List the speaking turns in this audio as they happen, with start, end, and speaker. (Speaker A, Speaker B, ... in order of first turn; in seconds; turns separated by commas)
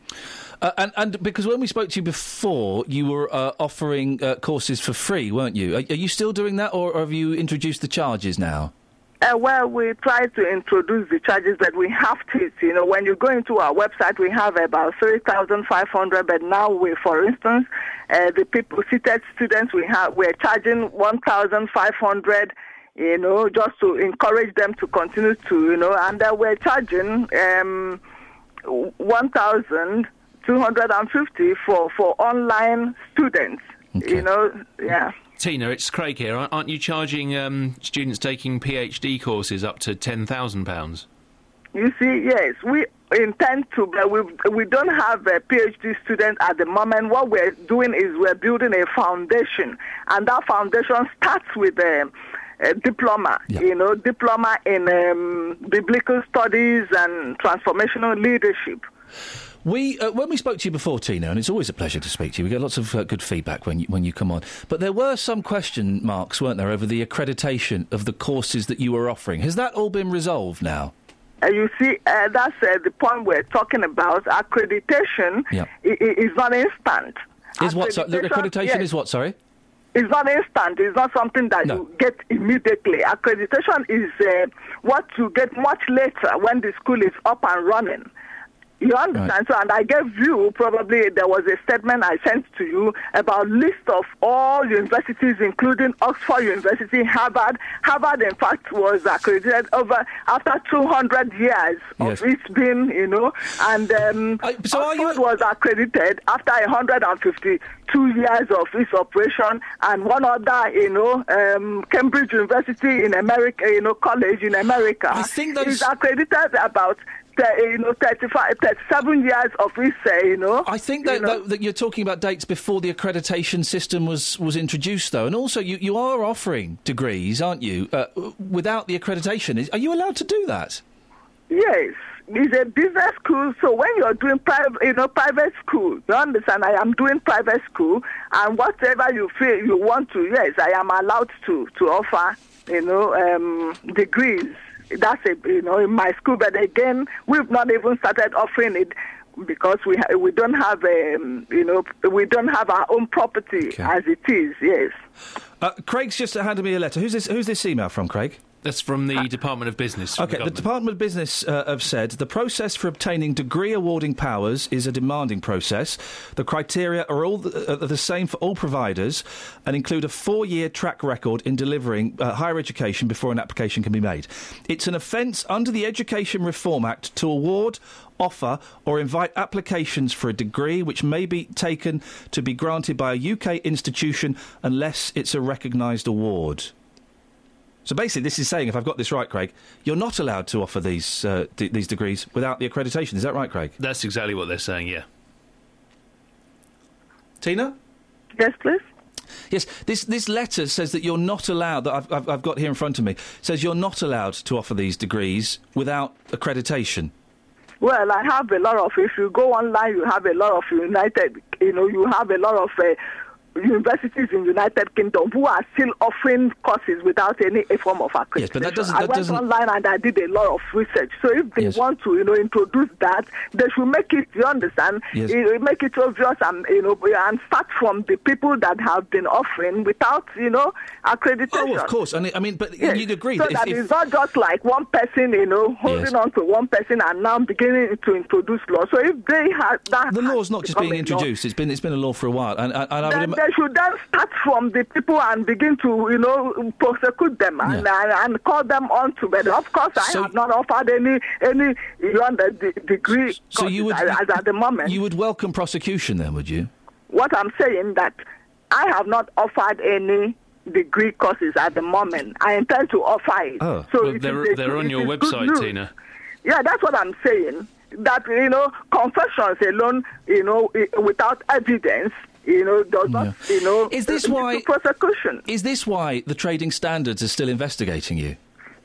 Speaker A: 0.6-8.7, Speaker B: 9.2-28.0, Speaker B: 28.6-35.1, Speaker A: 34.0-34.2, Speaker C: 35.4-41.1, Speaker B: 41.7-58.8, Speaker A: 59.6-70.9, Speaker B: 71.4-78.9, Speaker A: 77.6-79.3, Speaker B: 79.9-88.1, Speaker B: 88.8-121.4, Speaker A: 104.4-105.2, Speaker A: 115.1-115.9, Speaker A: 120.7-130.8, Speaker B: 131.5-155.0, Speaker A: 153.6-153.9, Speaker A: 155.6-158.4, Speaker C: 158.6-160.7, Speaker A: 160.2-186.7, Speaker A: 187.8-193.8, Speaker C: 193.8-195.1, Speaker A: 197.4-197.8, Speaker B: 198.4-198.8, Speaker A: 199.5-207.1, Speaker B: 207.8-213.0, Speaker B: 213.6-231.9, Speaker A: 218.4-219.4, Speaker A: 231.5-233.8, Speaker B: 232.8-241.3, Speaker A: 235.8-236.1, Speaker A: 240.1-243.4, Speaker B: 243.0-255.0, Speaker A: 250.0-250.3, Speaker A: 253.4-256.7, Speaker B: 257.1-258.2, Speaker B: 258.7-265.7, Speaker A: 263.6-263.9, Speaker C: 264.0-265.9, Speaker B: 266.4-275.5, Speaker A: 273.1-274.7, Speaker A: 275.5-278.4